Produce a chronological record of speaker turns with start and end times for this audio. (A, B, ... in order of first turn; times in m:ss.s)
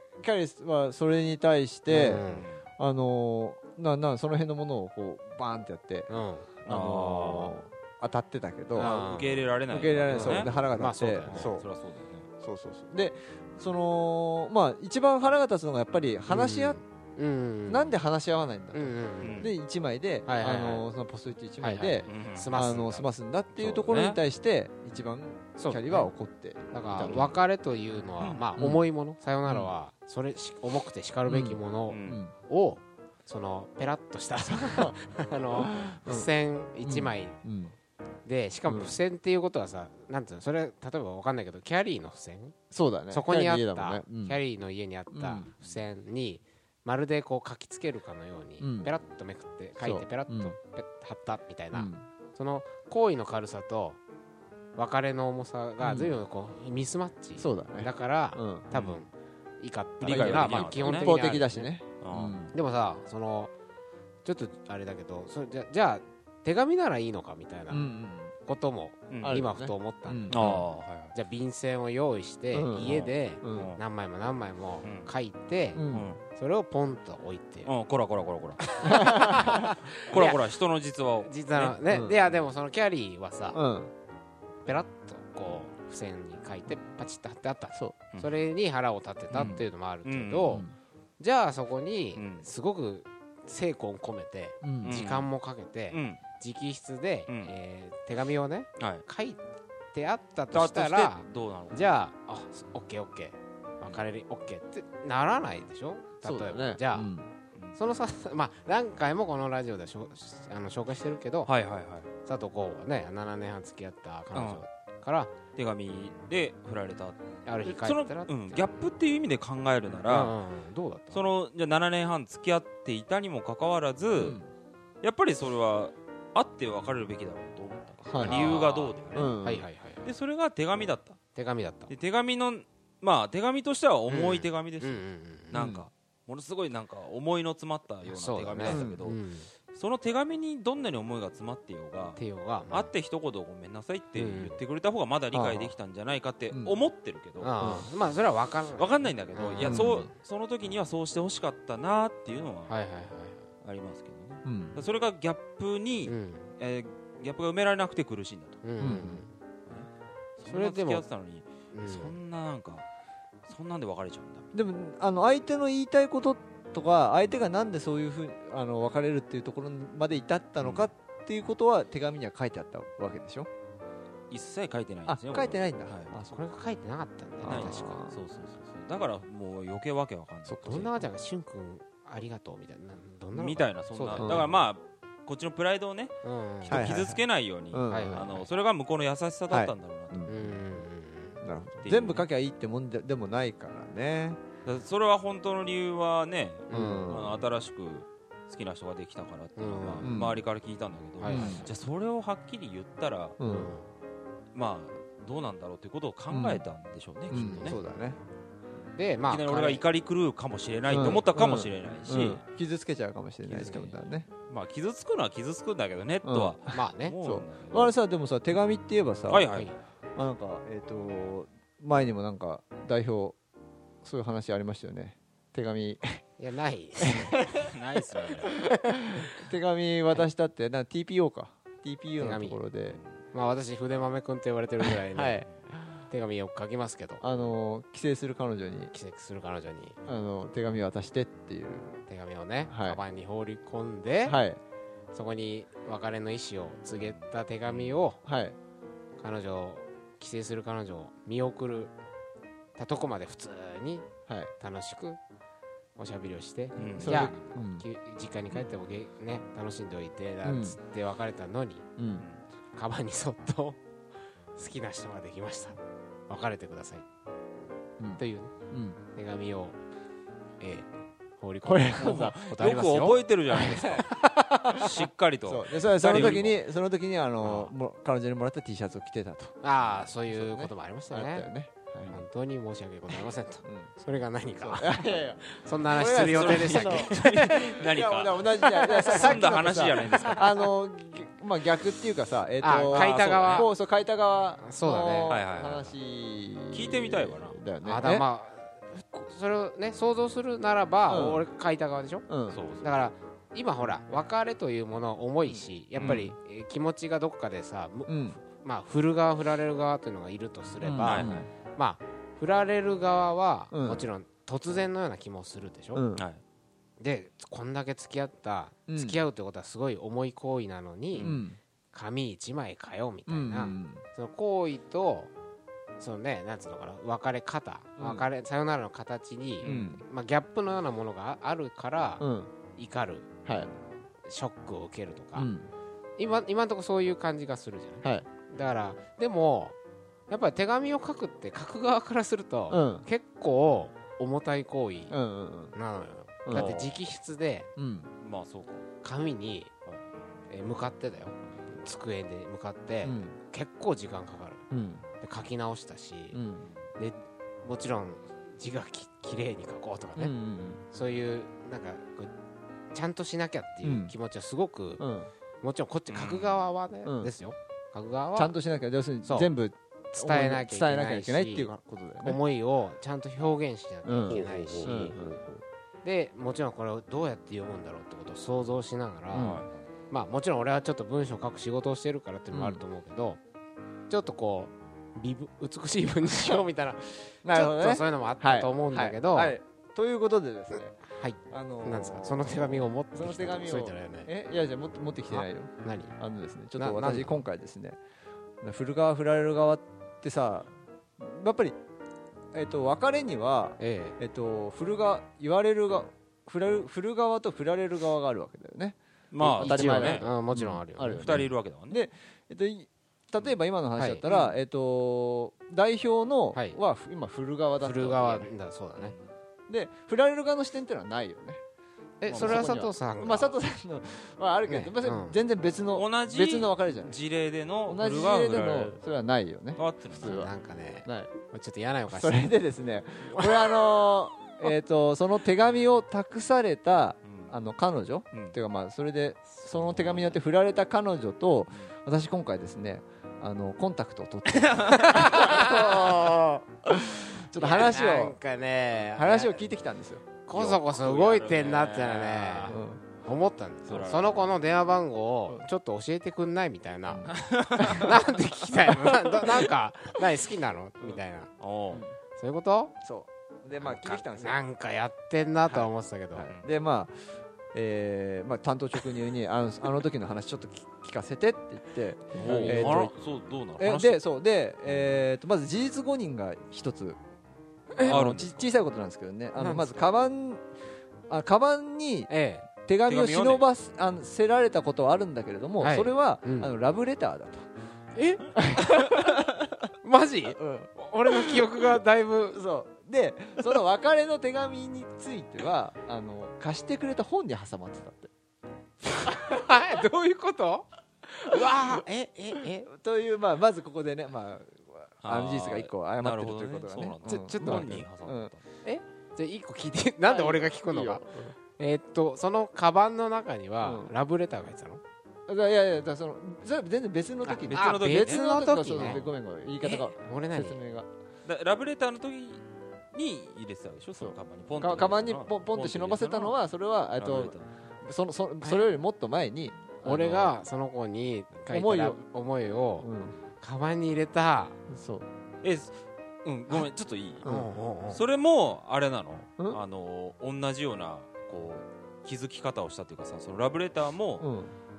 0:00.2-0:02.3 A
0:01.9-0:02.5 B
0:02.3-0:02.6 C
0:02.8-0:09.0 A
0:06.1-0:06.5 B
0:06.6-0:07.5 C
0:08.7-0:09.4 B
0:08.8-0:10.5 C
0:09.7-0:11.6 A
0:10.1-0:11.5 B
0:11.3-0:12.3 C
0:12.4-0:16.8 A
0:16.3-0:17.9 B
0:17.7-0:27.4 A
0:18.7-0:19.5 B
0:19.2-0:19.5 C
0:20.2-0:20.8 B
0:21.6-0:23.1 B
0:22.1-0:22.6 C
0:23.6-0:24.2 C
0:25.6-0:26.1 B
0:26.7-0:37.4 B
0:28.6-0:28.8 A
0:29.4-0:29.7 A
0:31.2-0:32.3 A
0:31.9-0:32.2 C
0:34.4-0:35.0 A
0:35.5-0:36.3 A
0:36.8-0:37.7 A
0:38.2-0:42.6 B
0:38.6-0:38.9 A
0:42.7-0:44.4 A
0:43.1-0:54.0 B
0:45.1-0:45.5 A
0:48.6-0:48.9 A
0:49.8-0:50.6 A
0:51.7-0:52.0 A
0:54.7-1:01.7 B
0:55.8-0:56.1 A
0:57.4-0:58.7 A
0:58.7-0:59.0 C
1:00.0-1:02.5 A
1:00.0-1:01.2 C
1:02.0-1:02.4 C
1:02.5-1:03.5 B
1:04.2-1:07.9 B
1:07.7-1:08.3 A
1:08.4-1:10.5 B
1:09.1-1:09.4 C
1:09.2-1:10.6 A
1:10.3-1:11.1 C
1:11.1-1:17.7 B
1:12.5-1:13.7 A
1:12.8-1:13.8 C
1:14.8-1:15.1 C
1:15.7-1:16.1 A
1:15.9-1:16.2 C
1:17.6-1:18.6 C
1:18.6-1:20.4 B
1:18.8-1:19.7 A
1:20.0-1:21.8 C
1:21.2-1:23.6 B
1:21.9-1:22.2 A
1:23.5-1:23.9 A
1:24.6-1:30.6 B
1:29.3-1:30.6 C
1:30.5-1:30.7 A
1:31.2-1:39.4 B
1:32.1-1:32.5 C
1:34.6-1:35.0 A
1:34.8-1:35.3 C
1:35.9-1:36.2 C
1:37.3-1:37.5 C
1:38.8-1:39.0 C
1:39.9-1:47.1 B
1:40.5-1:41.9 C
1:46.2-1:47.3 A
1:47.7-1:51.5 B
1:51.4-1:52.1 C
1:52.2-1:55.3 B
1:54.3-1:54.6 C
1:55.5-2:00.4 C
1:57.4-1:58.7 B
2:00.0-2:01.3 B
2:01.1-2:04.4 C
2:04.2-2:04.5 A
2:05.0-2:09.3 C
2:08.0-2:08.6 A
2:08.2-2:10.0 B
2:09.1-2:09.7 A
2:10.0-2:11.2 C
2:11.3-2:11.9 B
2:11.9-2:19.2 C
2:14.1-2:15.5 B
2:15.5-2:15.8 A
2:18.0-2:19.5 B
2:18.7-2:19.0 A
2:19.7-2:27.8 C
2:22.2-2:22.9 B
2:24.1-2:24.6 B
2:25.3-2:25.8 A
2:26.5-2:26.8 A
2:27.4-2:30.0 B
2:28.7-2:32.7 C
2:29.6-2:30.1 A
2:32.7-2:33.4 B
2:33.6-2:39.0 C
2:34.4-2:34.8 A
2:36.0-2:36.5 B
2:38.6-2:39.3 B
2:38.8-2:39.2 A
2:39.6-2:42.8 C
2:40.4-2:41.0 B
2:41.7-2:42.2 B
2:43.4-2:44.4 C
2:44.5-2:53.5 A
2:50.6-2:50.9 C
2:54.3-2:56.1 C
2:55.0-2:56.4 A
2:56.3-2:58.0 B
2:57.4-2:58.2 A
2:57.4-3:00.9 C
3:00.4-3:01.1 A
3:00.6-3:04.5 B
3:03.3-3:10.2 C
3:04.2-3:04.6 A
3:06.2-3:06.8 B
3:06.7-3:08.3 A
3:07.9-3:08.4 B
3:09.5-3:10.6 A
3:10.2-3:11.4 B
3:11.4-3:14.4 A
3:11.8-3:12.3 C
3:14.6-3:23.4 C
3:16.7-3:17.2 B
3:16.7-3:17.4 A
3:19.6-3:20.1 B
3:20.0-3:20.4 A
3:21.2-3:21.6 B
3:21.2-3:21.7 A
3:23.4-3:23.7 A
3:23.4-3:23.9 B
3:24.5-3:27.8 C
3:26.3-3:26.6 A
3:27.3-3:28.2 A
3:27.3-3:27.8 B
3:29.0-3:29.8 B
3:29.2-3:32.4 C
3:30.9-3:34.3 A
3:33.5-3:33.9 C
3:34.5-3:37.9 C
3:36.2-3:36.6 A
3:36.7-3:37.1 B
3:37.2-3:39.5 A
3:39.3-3:39.7 C
3:40.2-3:43.4 A
3:44.0-3:46.2 A
3:46.4-3:47.6 B
3:47.0-3:47.3 A
3:47.6-3:48.5 C
3:49.2-3:53.0 A
3:52.2-3:52.6 B
3:53.3-3:55.4 B
3:55.1-3:56.0 A
3:56.1-3:57.2 B
3:57.2-3:58.9 A
3:58.9-4:00.0 B
4:00.0-4:02.0 A
4:02.1-4:04.4 B
4:02.7-4:03.0 A
4:04.2-4:04.6 A
4:05.1-4:08.2 B
4:06.9-4:08.0 C
4:08.2-4:08.6 A
4:09.2-4:11.9 B
4:12.8-4:14.1 B
4:14.6-4:15.2 B
4:16.0-4:21.8 B
4:16.8-4:17.3 C
4:16.8-4:17.8 A
4:20.4-4:20.8 A
4:22.0-4:22.2 A
4:22.7-4:23.8 B
4:24.5-4:25.8 B
4:26.3-4:27.0 B
4:28.0-4:29.0 A
4:28.2-4:28.5 B
4:29.0-4:29.8 B
4:30.6-4:33.2 B
4:31.6-4:32.4 A
4:32.0-4:34.1 C
4:33.5-4:34.9 A
4:34.7-4:36.6 C
4:35.4-4:42.2 A
4:36.1-4:36.5 B
4:37.4-4:37.7 B
4:39.6-4:41.5 B
4:42.0-4:47.8 B
4:43.6-4:43.9 A
4:44.6-4:47.1 A
4:46.0-4:50.5 C
4:47.8-4:58.2 A
4:48.6-4:50.4 B
4:52.6-4:53.7 B
4:52.9-4:53.7 C
4:54.6-4:55.4 B
4:55.3-4:56.0 C
4:56.7-4:57.6 C
4:57.8-5:02.2 B
5:01.1-5:01.5 A
5:02.3-5:02.6 A
5:02.5-5:02.9 C
5:02.8-5:16.0 B
5:05.4-5:06.4 A
5:06.0-5:06.2 C
5:08.1-5:08.4 A
5:10.8-5:11.5 A
5:11.0-5:11.4 C
5:13.7-5:14.0 A
5:15.9-5:16.3 A
5:17.0-5:21.4 B
5:18.9-5:19.2 A
5:21.1-5:21.4 C
5:21.2-5:21.6 A
5:21.9-5:25.3 B
5:23.3-5:24.0 A
5:26.0-5:33.4 B
5:28.0-5:28.3 A
5:29.6-5:30.0 A
5:29.6-5:30.0 C
5:32.2-5:32.5 A
5:33.4-5:33.7 A
5:34.2-5:35.5 B
5:35.3-5:35.7 A
5:36.2-5:39.7 B
5:38.0-5:38.3 A
5:40.3-5:45.2 B
5:42.7-5:43.0 A
5:45.1-5:45.7 A
5:45.7-5:47.7 B
5:46.4-5:46.8 A
5:46.5-5:47.0 C
5:47.8-5:48.1 A
5:48.2-5:48.8 C
5:49.0-5:49.7 B
5:49.8-5:50.1 C
5:50.5-5:54.6 B
5:53.0-5:53.4 A
5:54.7-5:55.0 A
5:55.2-5:56.4 B
5:56.3-5:56.7 A
5:57.0-6:00.3 B
6:00.2-6:00.8 A
6:00.9-6:02.3 B
6:02.9-6:05.0 B
6:03.8-6:04.1 A
6:05.0-6:05.3 A
6:05.6-6:08.5 B
6:06.1-6:06.6 C
6:07.0-6:07.3 A
6:08.3-6:12.4 A
6:09.2-6:09.5 B
6:10.1-6:15.1 B
6:14.0-6:15.4 A
6:14.3-6:15.6 C
6:16.0-6:19.6 B
6:19.3-6:19.6 A
6:19.3-6:19.8 C
6:20.1-6:23.4 B
6:22.5-6:22.8 A
6:24.1-6:29.6 B
6:27.4-6:38.0 A
6:31.1-6:34.3 B
6:35.3-6:36.1 B
6:36.8-6:37.4 B
6:38.6-6:41.8 A
6:42.5-6:58.5 A
6:43.8-6:44.2 B
6:49.3-6:50.3 C
6:49.6-6:51.2 B
6:51.1-6:52.0 C
6:54.0-6:54.3 B
6:56.5-6:56.8 B
6:57.8-6:59.2 B
6:59.0-6:59.3 C
6:59.7-7:01.6 A
7:02.2-7:03.6 B
7:02.2-7:02.7 C
7:02.3-7:07.2 A
7:04.7-7:05.4 B
7:05.9-7:09.0 C
7:07.8-7:10.5 A
7:09.8-7:10.4 C
7:10.2-7:12.5 B
7:11.0-7:11.3 A
7:12.1-7:28.4 A
7:13.3-7:13.8 B
7:17.2-7:17.5 C
7:19.6-7:20.4 C
7:24.5-7:25.7 C
7:25.2-7:26.5 B
7:27.6-7:29.6 B
7:29.1-7:30.4 A
7:30.4-7:41.5 B
7:30.5-7:32.8 C
7:32.7-7:33.0 A
7:33.8-7:34.5 C
7:37.1-7:38.1 A
7:37.3-7:38.1 C
7:41.6-7:42.0 C
7:42.3-7:42.9 B
7:43.0-7:44.6 A
7:43.8-7:44.2 C
7:44.3-7:46.5 B
7:45.6-7:53.1 A
7:52.4-7:54.2 C
7:52.4-7:53.1 B
7:53.8-7:57.2 A
7:57.9-7:58.2 B
7:58.0-8:00.7 A
7:58.0-7:58.7 C
7:59.6-7:59.9 B
8:01.3-8:02.3 A
8:02.3-8:02.7 B
8:02.8-8:07.7 A
8:03.1-8:03.6 C
8:05.8-8:06.7 B
8:08.1-8:09.4 B
8:08.6-8:09.8 A
8:10.0-8:12.6 B
8:10.6-8:11.7 A
8:12.5-8:18.3 A
8:19.2-8:22.9 B
8:22.8-8:28.5 A
8:25.2-8:28.6 C
8:27.2-8:28.0 B
8:28.8-8:35.0 B
8:30.3-8:31.6 A
8:33.8-8:34.1 A
8:35.5-8:41.1 A
8:37.4-8:39.2 B
8:37.7-8:40.1 C
8:40.2-8:40.8 B
8:41.4-8:46.6 C
8:44.2-8:50.4 A
8:47.2-8:47.7 C
8:48.6-8:48.9 B
8:50.0-8:53.1 B
8:50.2-8:50.5 C
8:51.7-8:52.2 A
8:53.0-8:53.4 A
8:53.6-8:54.8 B
8:54.9-8:55.3 A
8:55.6-8:57.5 C
8:57.4-8:57.7 A
8:57.4-8:58.2 B
8:58.1-9:04.5 C
9:04.4-9:04.7 A